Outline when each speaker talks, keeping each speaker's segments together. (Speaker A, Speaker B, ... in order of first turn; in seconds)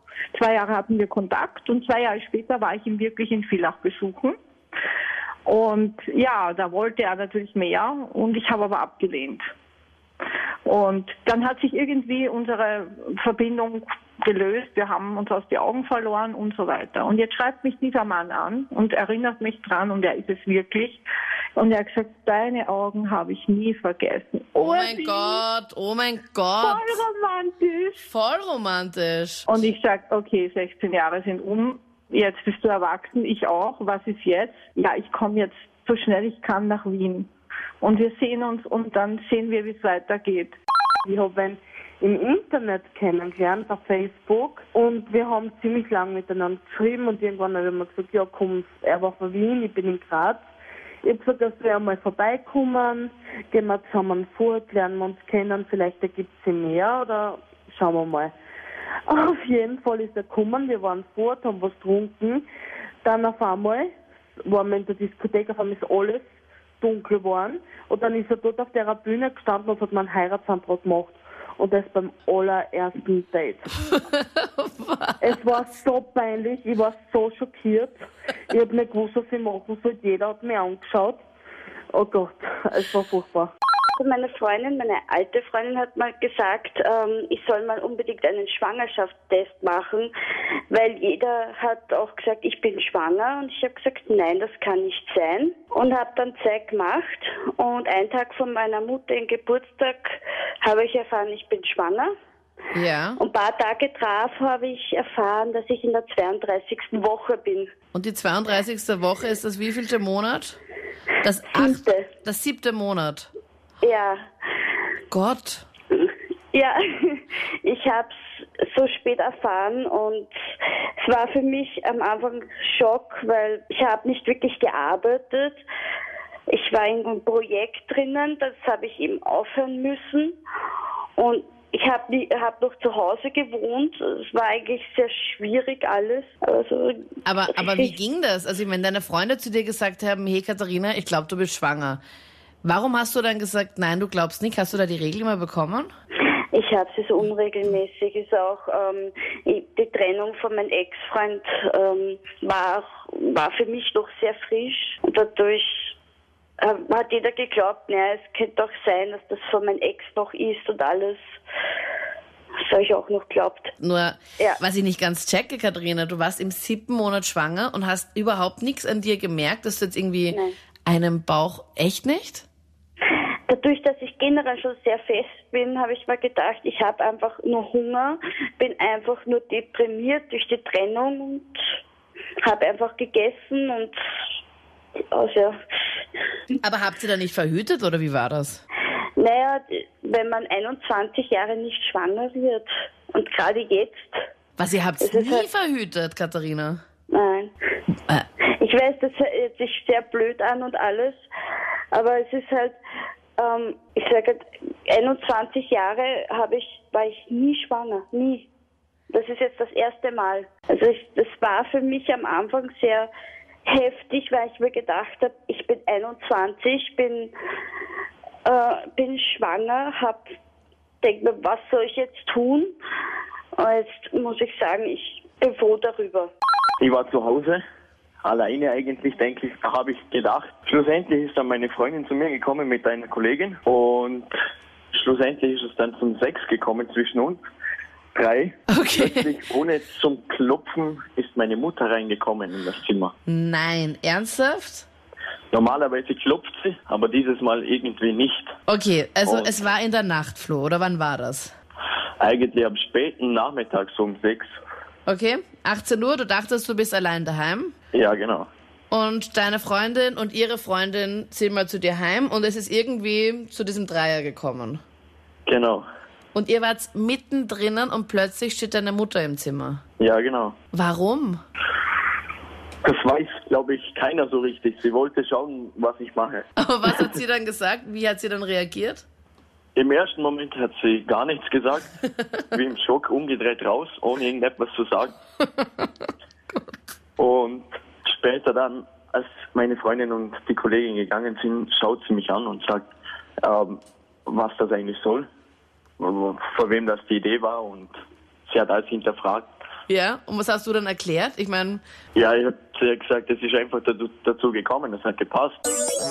Speaker A: 0.3-4.4, 5.5-9.5, 10.7-21.0, 21.6-25.4, 26.6-28.0, 29.5-37.3, 37.8-40.6
Speaker B: 24.6-27.0, 28.0-29.4, 73.9-75.2, 102.7-103.2, 107.9-110.6, 111.2-113.3, 115.1-115.6, 137.2-142.0, 142.6-145.9, 163.8-172.4, 186.6-188.6, 194.6-196.8, 238.7-239.3, 243.3-244.9, 248.7-251.5, 255.1-257.7, 258.9-264.8, 266.3-269.8, 270.7-271.4, 276.6-279.0, 299.9-301.8
Speaker C: 41.0-50.4, 51.0-58.3, 59.1-62.4, 63.0-63.9, 64.5-66.2, 66.8-73.7, 75.2-81.2, 81.9-83.5
Speaker D: 84.0-90.1, 90.7-102.1, 103.2-107.7, 111.5-112.1, 113.8-114.7, 115.9-125.6, 126.5-130.4, 131.2-137.0, 137.5-137.9, 146.5-155.9, 156.6-161.4, 162.7-163.7, 173.1-181.6, 182.4-184.0, 185.1-185.6, 189.2-194.2, 195.0-195.5, 197.1-197.5, 198.5-201.2, 201.9-202.8, 203.4-208.5, 209.1-213.1, 213.7-217.3, 218.4-220.2, 221.0-222.7, 223.6-226.3
Speaker E: 226.8-227.6, 228.2-234.3, 234.9-237.4, 238.1-243.1, 245.5-248.5, 249.2-249.6, 252.2-254.5, 257.9-258.5, 265.5-265.8, 270.0-270.5, 272.8-276.4, 279.8-281.9, 282.5-285.1, 287.2-292.9, 293.4-295.3, 296.0-297.9, 298.5-299.5, 302.1-305.6